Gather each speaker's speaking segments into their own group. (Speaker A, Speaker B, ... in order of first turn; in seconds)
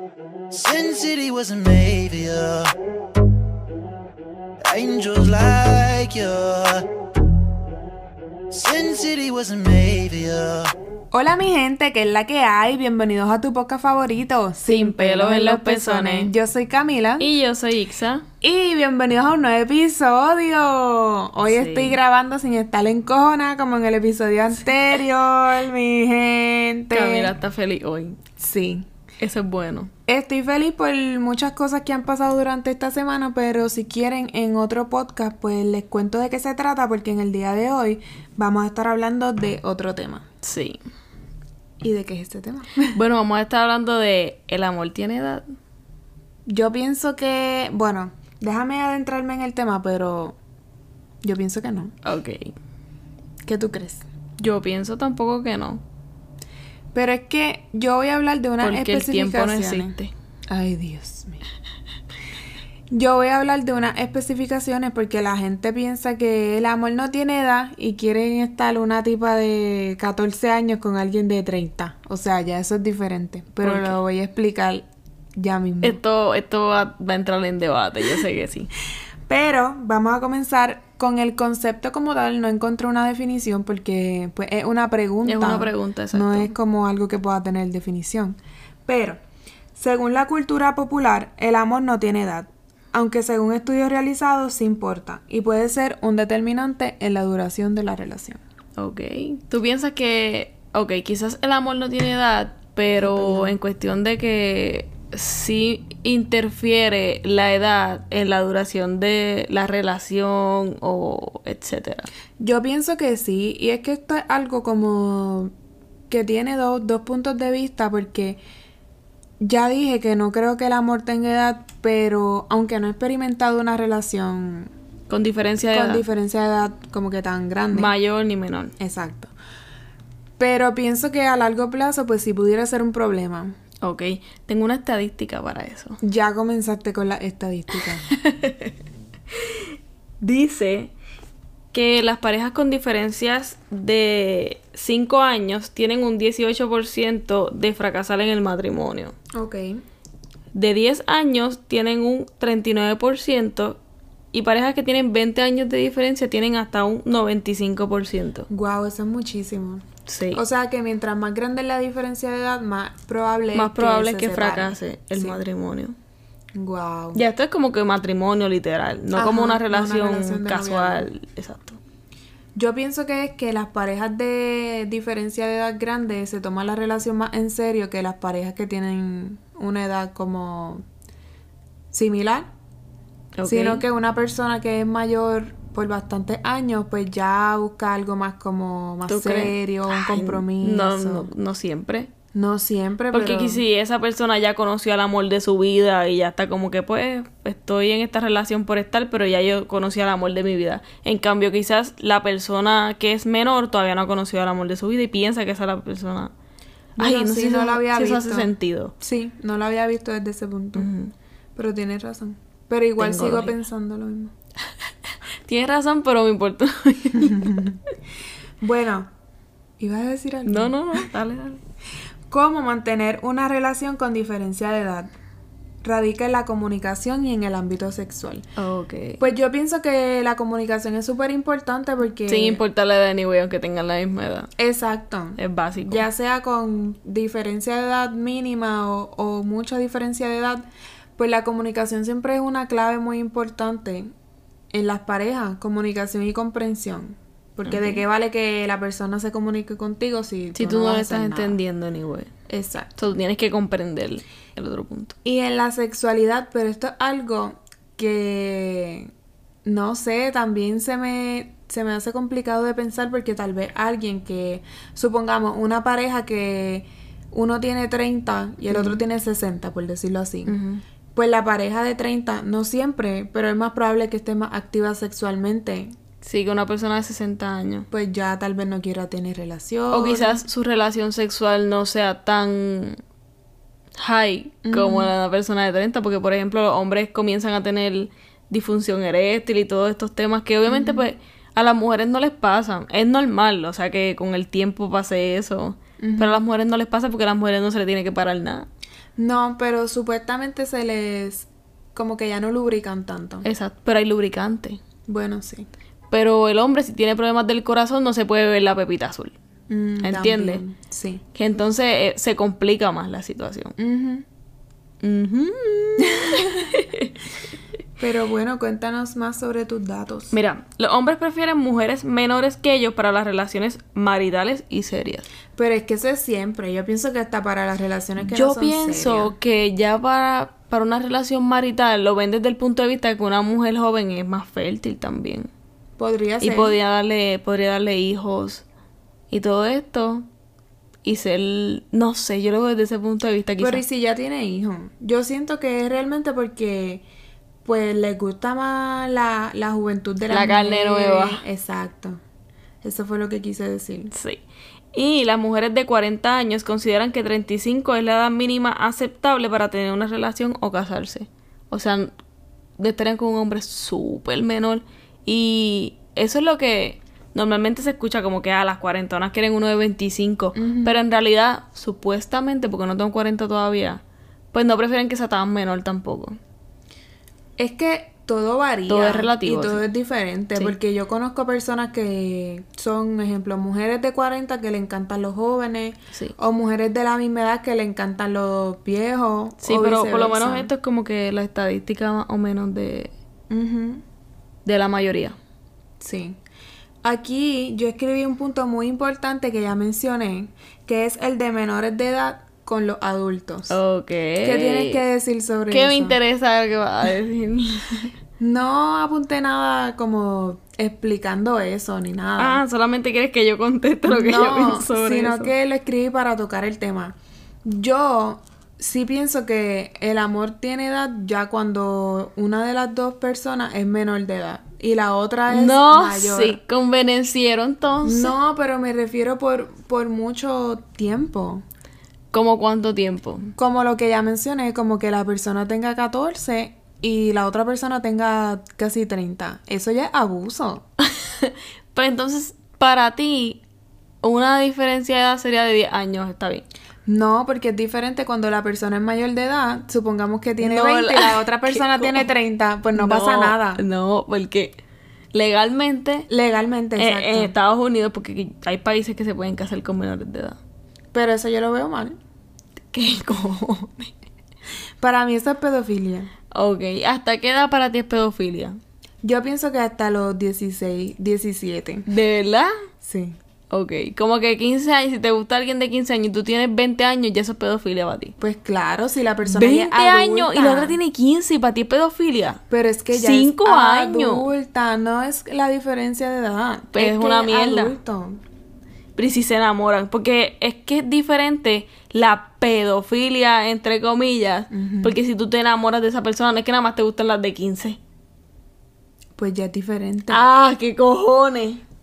Speaker A: 0.5-2.7, 4.7-6.9, 8.5-10.7
Speaker B: 11.1-17.3, 18.4-27.3, 28.4-28.9, 30.1-40.2, 41.8-43.0, 46.5-50.4, 51.2-51.9, 53.4-54.0, 56.9-59.9, 60.5-61.4, 62.9-76.0, 79.3-89.2, 89.7-98.4, 103.0-103.5, 112.4-115.5, 116.1-118.4, 119.4-124.7, 125.7-127.9, 128.8-129.3, 130.4-133.6, 136.0-138.0, 149.3-149.8, 158.5-165.4, 166.5-167.2, 169.1-171.1, 172.6-180.8, 181.9-182.5, 183.4-191.3, 192.3-193.6, 207.0-210.9, 211.6-214.3, 217.2-217.8, 218.6-219.1, 219.8-221.1, 222.3-225.1, 225.8-228.4, 229.2-232.6, 234.6-240.6, 241.2-244.1, 244.7-251.6, 252.5-252.9, 255.2-259.1, 259.6-270.6, 271.1-275.9, 277.9-280.4, 284.6-285.1, 290.7-291.0, 296.0-296.4, 299.2-303.4, 305.1-305.7, 309.7-311.2, 313.8-314.2, 316.0-316.8, 318.0-320.3, 325.6-329.3, 336.0-336.8, 343.6-347.0, 347.6-352.2, 352.8-354.1, 370.5-371.0, 377.6-390.7, 393.5-394.0, 396.0-396.4, 397.0-403.7, 404.4-406.2, 408.4-412.6, 414.1-426.6, 428.0-431.6, 433.6-440.8, 447.1-453.8, 456.3-457.5, 461.1-462.2, 465.0-466.3, 469.2-472.1, 473.0-473.4, 478.4-481.0, 482.7-488.4, 494.7-495.2, 499.4-500.4
Speaker C: 14.7-16.3, 17.2-18.2, 21.5-22.0, 26.9-28.2, 29.2-29.9, 40.4-40.8, 42.9-45.4, 52.0-52.5, 54.4-55.8, 58.6-60.1, 73.6-73.9, 75.8-78.7, 85.2-86.5, 98.8-112.1, 125.1-126.0, 127.7-128.7, 133.8-136.0, 138.1-138.7, 139.3-139.6, 140.2-140.9, 141.7-149.1, 150.5-153.8, 154.3-158.5, 160.1-160.4, 163.5-165.9, 167.1-171.8, 183.3-183.8, 189.1-192.1, 193.1-206.3, 207.0-208.9, 210.8-211.1, 213.0-213.5, 215.4-217.7, 220.4-221.6, 228.6-229.2, 232.3-234.5, 235.4-236.0, 247.7-248.0, 250.5-252.3, 252.9-255.2, 268.7-269.0, 270.4-270.8, 276.2-277.9, 279.9-283.0, 284.0-298.7, 303.4-304.8, 306.1-309.3, 310.0-310.6, 311.3-313.7, 315.0-317.1, 320.3-325.2, 328.2-335.5, 336.4-338.6, 339.3-340.2, 341.0-343.8, 350.3-351.4, 354.1-354.4, 354.9-362.1, 362.8-374.0, 374.5-376.4, 378.9-379.8, 389.6-393.1, 394.6-395.4, 403.7-405.0, 405.7-408.1, 412.4-415.5, 425.5-428.3, 432.3-433.5, 441.0-443.6, 444.2-446.6, 450.6-452.3, 452.9-454.7, 455.3-456.3, 457.0-460.6, 462.9-464.1, 466.5-468.8, 472.1-472.7, 473.7-478.4, 479.4-482.6, 483.1-484.5, 486.9-487.9, 489.1-498.0, 500.3-501.8